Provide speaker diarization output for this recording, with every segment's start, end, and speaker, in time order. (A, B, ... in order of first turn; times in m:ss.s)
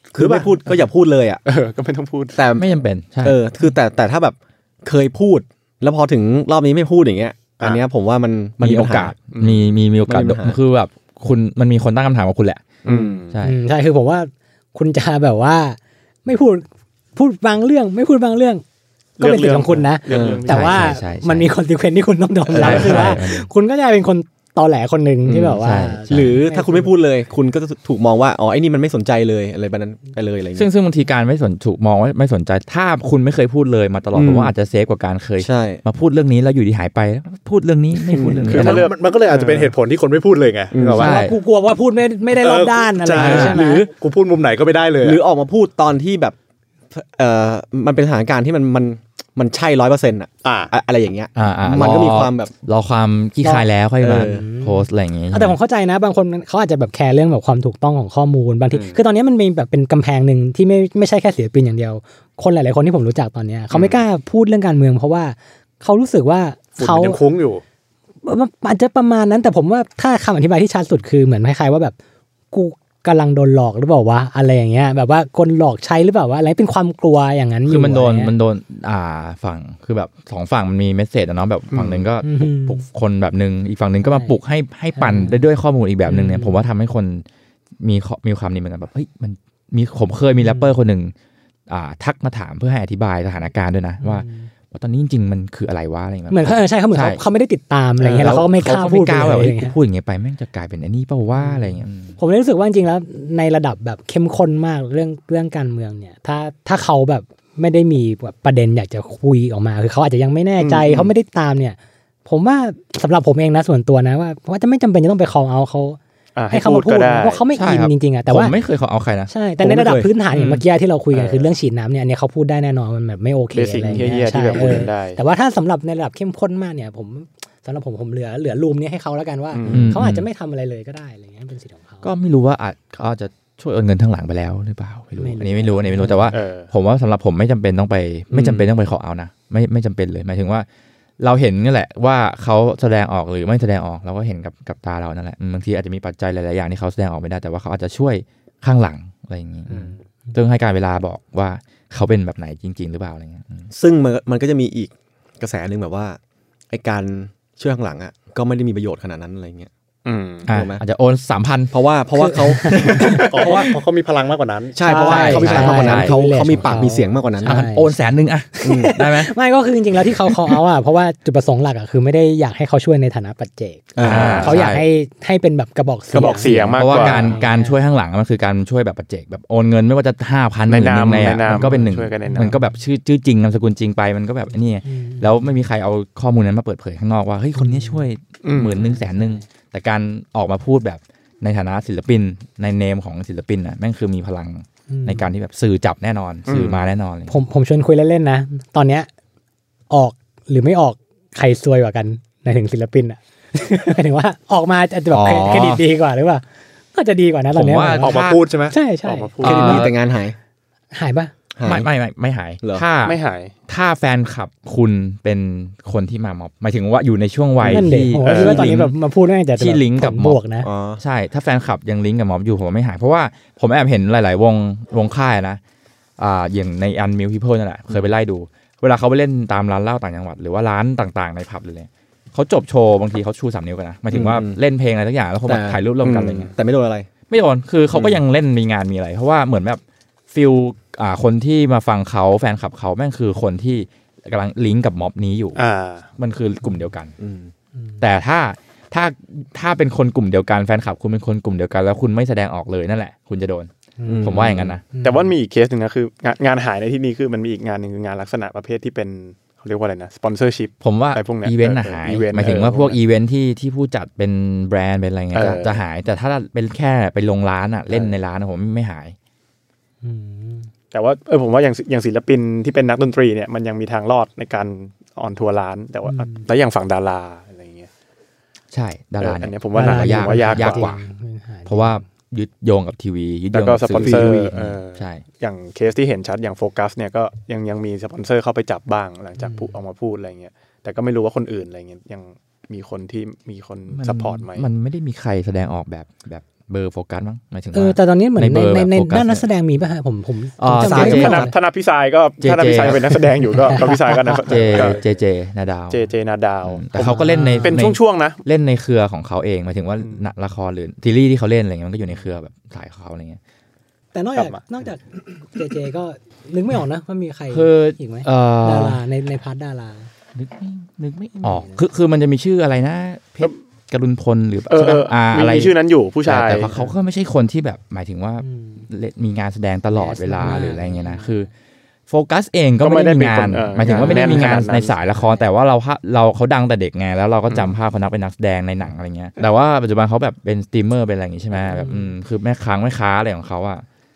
0:00.1-0:00.6 A
0:00.2-0:01.4 B
0:01.5-0:02.4 C
0:02.4-0:02.7 B
0:02.6-0:03.4 D
0:03.2-0:09.2 B
0:08.6-0:12.8 D
0:09.3-0:09.7 C
0:10.1-0:10.6 B
0:12.8-0:13.2 B
0:12.8-0:13.4 C
0:13.3-0:13.6 D
0:13.4-0:18.6 E
0:19.2-0:21.0 C
0:19.2-0:26.9 E
0:20.1-0:20.5 B
0:20.5-0:21.5 D
0:22.5-0:23.2 B
0:22.5-0:23.5 D
0:25.3-0:26.4 D
0:26.1-0:30.7 B
0:30.6-0:38.9 D
0:34.1-0:34.5 B
0:35.4-0:35.8 B
0:38.1-0:38.8 B
0:38.4-0:39.7 C
0:38.6-0:41.3 A
0:40.7-0:41.1 B
0:41.0-0:43.9 E
0:41.0-0:41.4 D
0:42.3-0:45.2 A
0:43.2-0:43.9 B
0:43.2-0:43.6 D
0:45.0-0:46.4 B
0:46.9-0:52.5 B
0:50.4-0:50.7 A
0:51.4-0:55.6 D
0:53.4-1:07.2 E
0:54.0-0:54.4 B
0:58.7-0:59.0 A
1:06.8-1:07.6 A
1:08.2-1:12.0 E
1:12.5-1:18.3 E
1:17.7-1:27.2 D
1:21.7-1:22.0 C
1:22.2-1:22.8 E
1:24.1-1:24.4 E
1:25.0-1:25.4 E
1:26.0-1:26.6 E
1:27.8-1:31.1 D
1:30.4-1:30.8 E
1:31.7-1:37.2 D
1:34.0-1:34.5 E
1:36.3-1:39.8 E
1:38.0-1:38.4 C
1:38.2-1:42.2 D
1:41.4-1:56.0 E
1:50.6-1:51.1 C
1:56.4-1:57.4 C
1:56.5-1:58.6 E
1:57.5-1:59.3 D
1:59.3-2:12.1 E
1:59.6-2:00.1 B
2:00.3-2:00.6 D
2:01.1-2:01.5 C
2:03.5-2:05.2 C
2:09.5-2:09.8 C
2:09.7-2:10.0 B
2:09.7-2:10.3 D
2:12.0-2:20.7 D
2:15.2-2:16.4 E
2:16.3-2:16.7 C
2:18.3-2:18.7 B
2:21.2-2:33.7 D
2:33.7-2:36.2 B
2:36.7-2:39.7 B
2:40.0-2:40.5 C
2:40.5-2:41.7 D
2:40.5-2:40.8 B
2:41.7-2:43.6 B
2:42.1-2:43.5 E
2:42.6-2:43.1 D
2:43.1-2:44.8 A
2:44.8-2:47.6 B
2:44.8-2:48.0 E
2:45.0-2:46.2 D
2:47.4-2:49.3 D
2:48.5-2:57.8 E
2:48.6-2:48.9 B
2:54.0-2:54.6 B
2:54.0-2:54.8 D
2:54.0-2:54.6 C
2:56.1-2:57.4 C
2:56.2-2:56.5 B
2:56.7-3:17.4 D
3:00.7-3:02.6 C
3:01.5-3:02.6 E
3:04.8-3:05.5 E
3:07.6-3:08.0 E
3:08.4-3:08.8 C
3:08.7-3:09.4 E
3:14.9-3:15.3 E
3:16.5-3:16.8 C
3:17.3-3:19.1 E
3:19.9-3:28.2 E
3:25.1-3:25.8 D
3:25.3-3:25.7 B
3:27.5-3:28.4 D
3:28.0-3:28.8 A
3:28.7-3:29.9 E
3:29.0-3:29.8 C
3:29.4-3:29.9 D
3:29.4-3:30.4 B
3:30.9-3:31.3 E
3:31.6-3:31.9 B
3:31.6-3:38.9 D
3:33.0-3:33.5 C
3:37.6-3:37.9 B
3:37.7-3:40.7 E
3:38.2-3:38.8 C
3:39.5-3:40.4 D
3:40.6-3:41.0 B
3:41.0-3:45.6 D
3:46.2-3:56.5 D
3:54.1-3:54.6 B
3:55.5-3:57.1 B
3:57.3-4:05.6 D
3:57.9-3:58.2 B
4:05.6-4:06.1 C
4:06.2-4:07.2 D
4:07.2-4:07.5 B
4:08.0-4:13.7 D
4:14.0-4:15.3 E
4:14.0-4:14.8 B
4:14.2-4:14.8 D
4:15.0-4:23.0 C
4:20.8-4:29.2 D
4:25.3-4:25.8 C
4:30.0-4:30.7 E
4:30.9-4:37.9 C
4:36.1-4:36.5 E
4:38.7-4:41.0 D
4:39.2-4:40.9 C
4:39.8-4:42.0 E
4:41.7-4:45.2 D
4:43.5-4:54.7 C
4:44.0-4:44.5 B
4:49.4-4:49.7 E
4:53.9-4:59.5 D
4:57.7-5:01.5 E
5:00.6-5:01.5 D
5:00.8-5:05.0 C
5:02.4-5:03.4 D
5:03.6-5:04.4 E
5:04.4-5:06.0 D
5:04.6-5:05.0 A
5:05.9-5:08.4 C
5:06.6-5:13.4 D
5:07.0-5:07.8 E
5:14.1-5:20.1 E
5:17.5-5:19.0 D
5:20.4-5:31.5 D
5:21.4-5:21.8 E
5:24.7-5:26.9 C
5:28.4-5:28.9 E
5:29.9-5:31.4 E
5:32.1-5:43.8 D
5:32.8-5:34.9 C
5:33.8-5:35.5 E
5:41.6-5:42.2 E